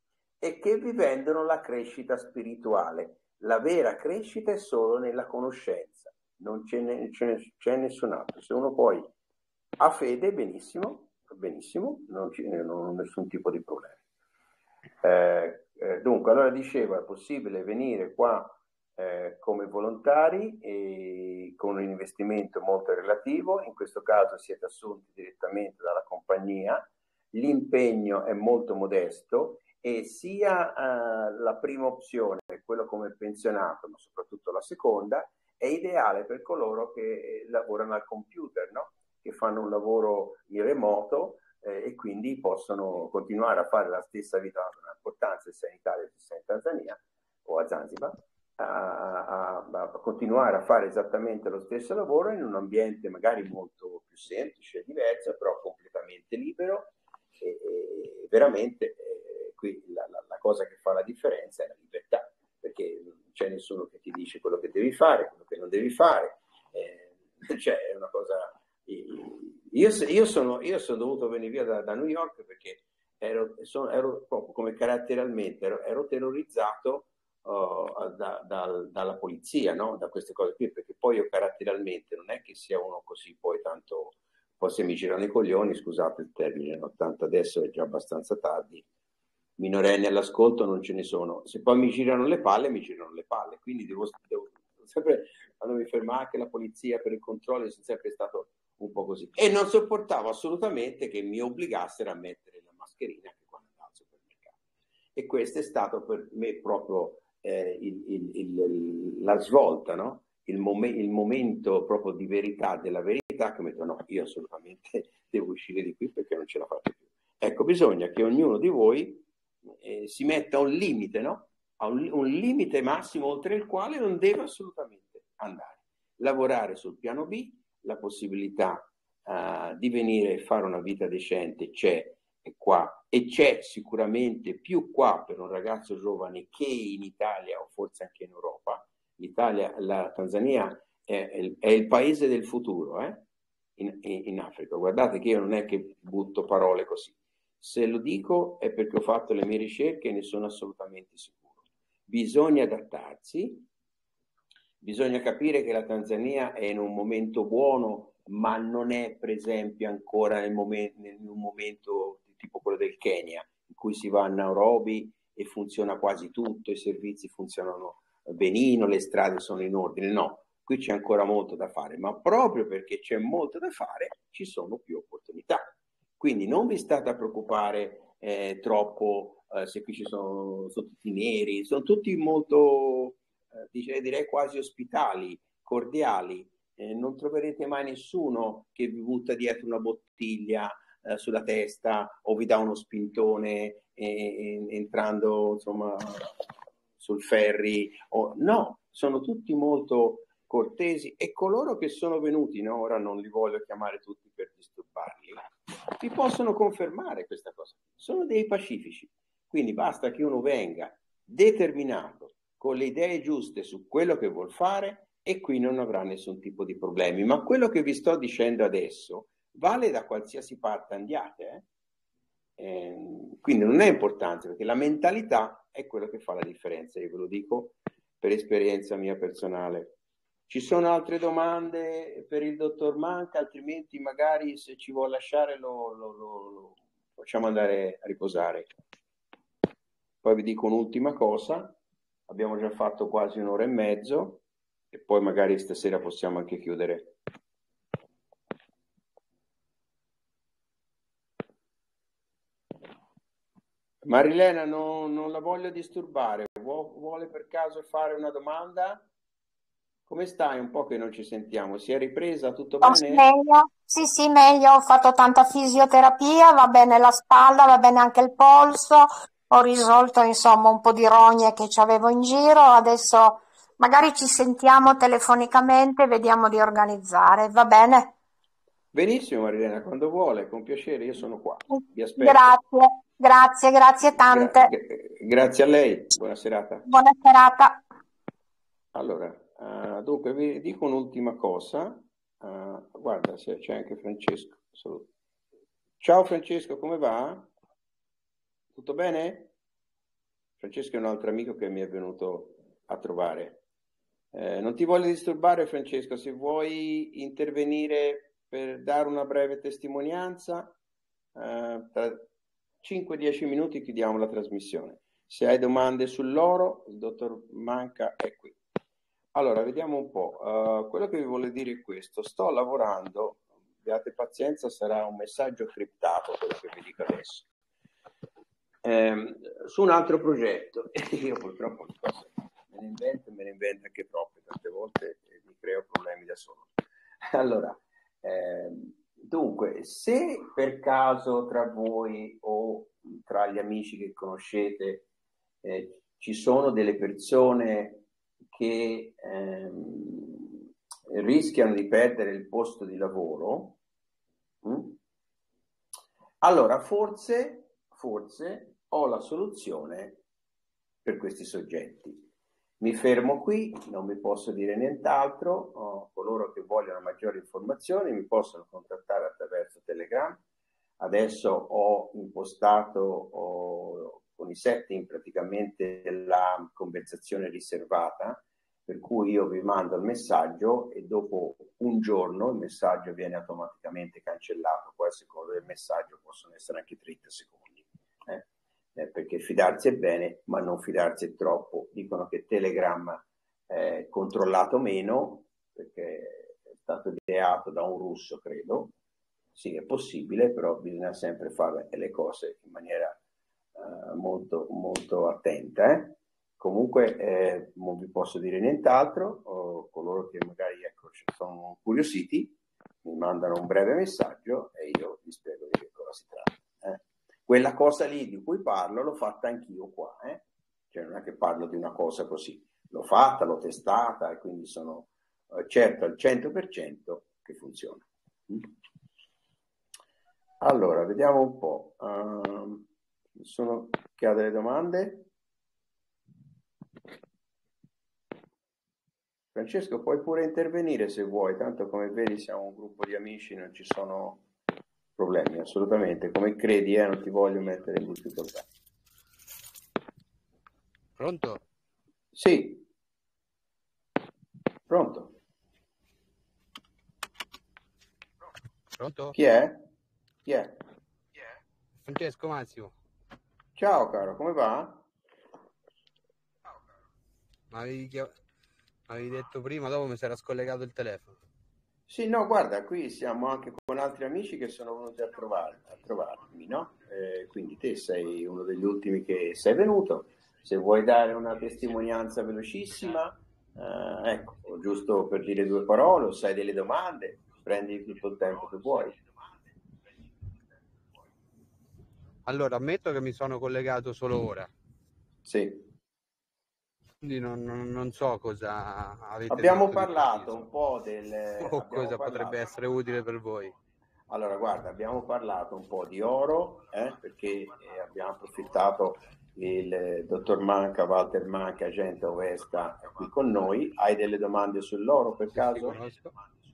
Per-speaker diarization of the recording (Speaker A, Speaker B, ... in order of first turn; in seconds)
Speaker A: 0.4-9.1, 9.8-14.0, 15.0-88.8, 89.6-104.6, 105.2-119.3, 119.8-143.2, 143.8-153.7, 154.8-196.3, 197.0-221.7, 222.6-230.0, 230.5-238.7, 240.2-241.8, 242.3-247.2, 254.0-259.1, 260.1-263.2, 278.9-282.6, 284.3-286.9, 288.9-295.1, 296.0-297.5, 298.8-299.5, 300.6-303.6, 304.3-310.8, 311.4-312.3, 312.8-318.6, 319.3-327.5, 328.8-336.7, 337.3-345.1, 345.6-350.5, 351.1-353.8, 354.6-355.0, 356.4-360.2, 361.0-362.3, 362.8-370.4, 371.0-398.9, 399.6-403.2, 403.8-428.7, 430.6-435.3, 439.5-444.4, 445.2-448.7, 452.4-452.9, 454.9-455.4, 459.3-459.9, 460.5-460.8, 463.8-465.1, 472.1-489.2, 495.4-495.9, 499.5-502.7, 504.3-516.0
Speaker B: 262.8-278.1, 282.2-284.7, 286.9-287.8
Speaker C: 451.2-451.6, 459.0-459.4, 462.0-462.9, 467.7-468.4, 469.1-471.4, 492.5-494.7, 497.2-500.7, 501.6-503.8, 515.5-516.4